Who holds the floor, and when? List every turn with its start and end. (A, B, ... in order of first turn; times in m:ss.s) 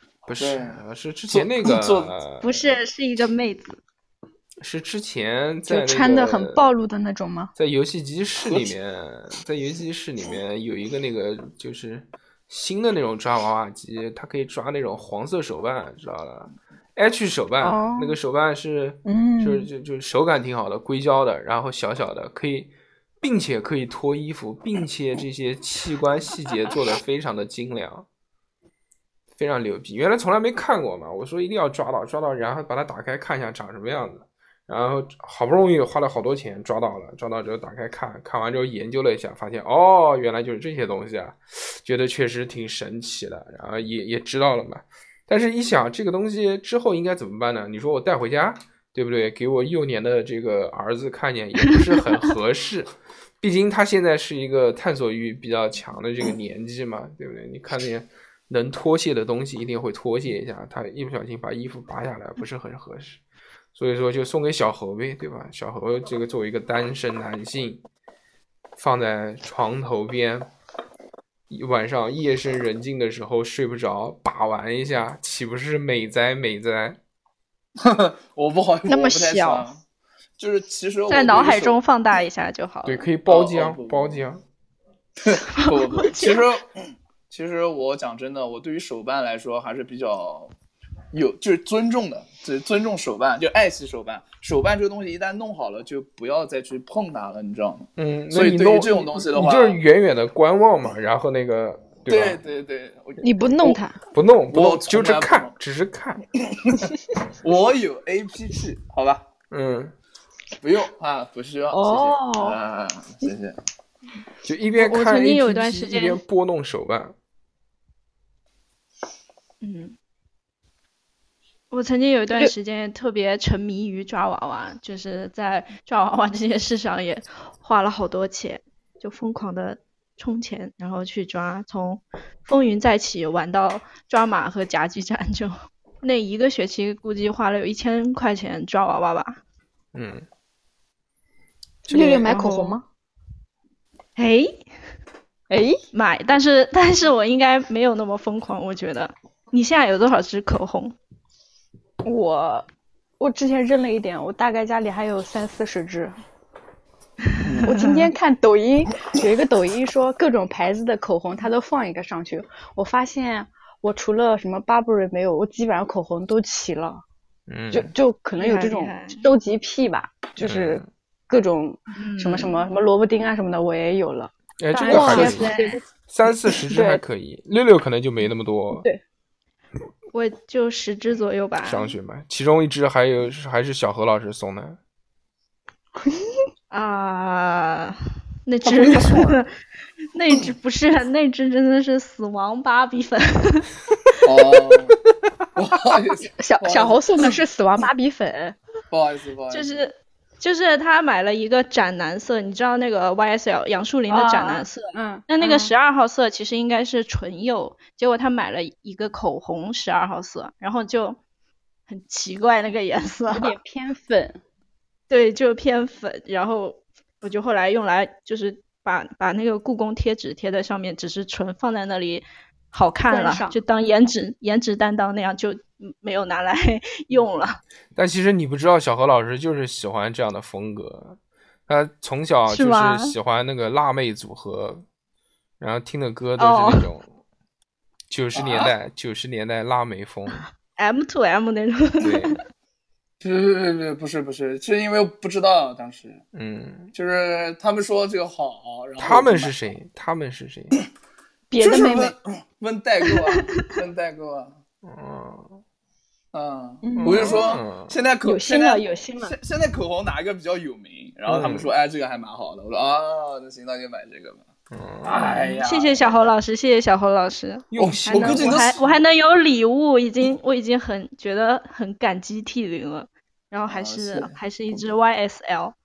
0:00.3-0:02.7 A
0:00.4-0:02.1 B
0:02.4-0:03.8 C
0:04.6-0:06.7 A
0:05.7-0:07.5 D
0:07.6-0:28.1 A
0:17.6-0:18.2 D
0:19.0-0:19.7 D
0:29.4-1:03.2 A
1:03.7-1:07.8 A
1:08.8-1:10.5 A
1:11.5-1:17.0 A
1:17.8-1:19.8 B
1:18.9-1:19.7 C
1:20.4-1:21.8 B
1:21.1-1:23.1 C
1:22.8-1:24.4 A
1:23.3-1:24.2 B
1:25.2-1:26.8 B
1:25.3-1:26.5 C
1:27.3-1:30.5 B
1:31.1-1:39.8 B
1:38.0-1:42.4 A
1:42.1-1:43.8 B
1:43.2-1:44.0 D
1:44.1-1:46.2 A
1:44.5-1:45.5 B
1:46.6-1:49.3 B
1:49.5-1:49.9 A
1:50.6-1:53.6 B
1:51.7-1:52.6 D
1:54.4-1:57.2 A
1:54.8-1:56.2 C
1:59.6-2:00.0 C
2:01.7-2:19.4 C
2:19.9-2:20.3 A
2:21.9-2:22.3 A
2:21.9-2:22.8 D
2:22.2-2:22.8 C
2:24.2-2:24.6 C
2:25.5-2:25.8 D
2:25.9-2:31.0 C
2:32.0-2:32.7 D
2:33.2-2:36.1 D
2:37.4-2:37.7 B
2:37.6-2:38.1 C
2:37.6-2:47.0 D
2:47.5-2:47.9 A
2:47.7-2:55.8 D
2:48.4-2:49.2 C
2:50.4-2:50.9 A
2:52.0-2:52.5 C
2:54.6-2:55.5 A
2:54.8-2:55.8 C
2:56.1-2:58.9 A
2:56.7-2:57.0 D
3:00.1-3:01.9 C
3:01.6-3:04.8 A
3:06.0-3:06.4 D
3:06.7-3:09.5 C
3:08.6-3:09.4 B
3:10.1-3:14.1 C
3:14.2-3:15.0 B
3:15.6-3:17.3 B
3:16.4-3:18.6 D
3:18.9-3:19.8 B
3:19.5-3:31.2 C
3:24.1-3:25.7 D
3:31.9-3:33.5 C
3:33.3-3:34.4 D
3:35.1-3:47.6 C
3:43.1-3:43.6 D
3:48.0-3:54.8 A
3:52.5-3:53.1 C
3:55.6-3:57.1 A
3:56.4-3:56.9 C
3:58.1-4:00.5 A
3:58.4-3:58.7 B
4:00.8-4:02.4 C
4:02.0-4:02.4 A
4:03.2-4:06.2 B
4:06.3-4:06.9 A
4:06.9-4:09.5 B
4:09.0-4:10.8 A
4:11.5-4:12.2 D
4:11.6-4:14.6 B
4:14.8-4:15.6 A
4:16.3-4:24.4 B
4:16.8-4:17.6 D
4:17.0-4:18.0 A
4:18.2-4:19.4 D
4:21.3-4:21.7 A
4:24.7-4:25.2 A
4:25.0-4:26.2 B
4:25.2-4:35.8 C
4:27.7-4:28.6 A
4:27.8-4:28.9 B
4:33.7-4:34.3 B